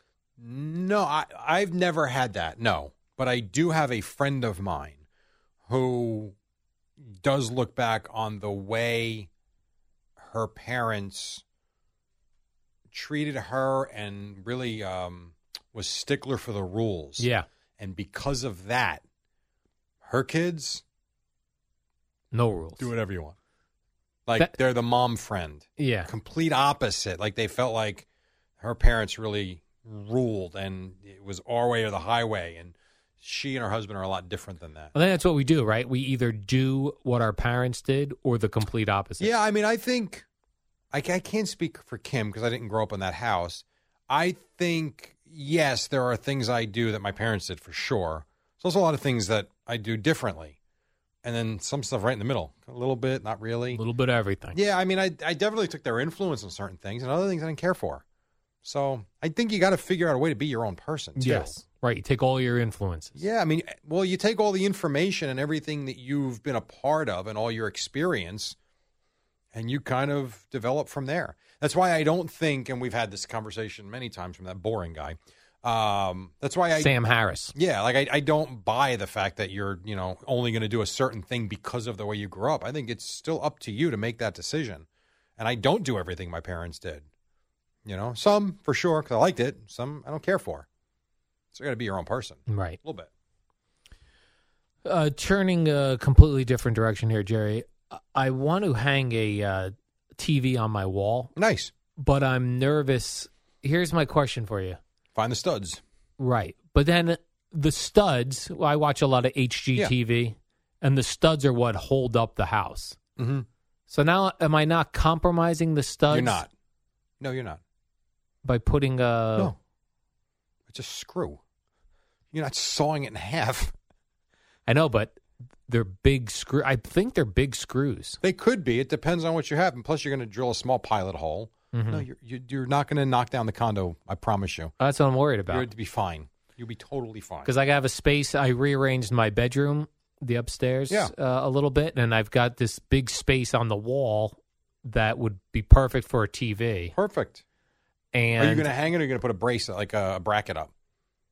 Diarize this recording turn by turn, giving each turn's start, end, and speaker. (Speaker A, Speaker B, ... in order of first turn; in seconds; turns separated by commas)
Speaker A: 0.4-5.0, Speaker A: 5.7-6.3, Speaker A: 7.2-9.3, Speaker A: 10.2-11.4, Speaker A: 12.9-17.3, Speaker B: 17.2-17.5, Speaker A: 17.8-19.0, Speaker A: 20.0-20.8, Speaker B: 22.3-22.9, Speaker A: 22.8-23.4, Speaker A: 24.2-28.1, Speaker B: 25.8-26.1, Speaker A: 28.6-34.9, Speaker B: 34.9-39.3, Speaker A: 39.2-40.2, Speaker A: 40.9-50.6, Speaker A: 51.2-53.8, Speaker B: 53.7-54.6, Speaker A: 54.5-58.0, Speaker A: 58.6-61.5, Speaker B: 61.2-63.2, Speaker A: 63.2-68.6, Speaker A: 69.5-76.9, Speaker B: 76.8-77.5, Speaker A: 77.5-84.8, Speaker A: 85.4-87.0, Speaker A: 87.9-90.7, Speaker A: 91.5-93.1, Speaker B: 92.5-92.8, Speaker B: 94.8-101.3, Speaker A: 101.4-101.7, Speaker B: 102.0-104.8, Speaker A: 105.1-105.8, Speaker B: 106.2-113.0, Speaker A: 113.2-113.5, Speaker B: 113.9-116.4, Speaker A: 116.1-116.5, Speaker A: 117.2-117.6, Speaker B: 118.4-119.5, Speaker A: 120.7-121.4, Speaker A: 122.3-123.7, Speaker B: 124.7-125.2, Speaker B: 125.7-128.2, Speaker A: 128.2-134.7, Speaker B: 131.7-132.1, Speaker B: 134.8-135.7, Speaker A: 135.5-137.5, Speaker B: 137.4-146.9, Speaker A: 146.9-147.4, Speaker B: 148.1-148.7, Speaker A: 148.4-150.7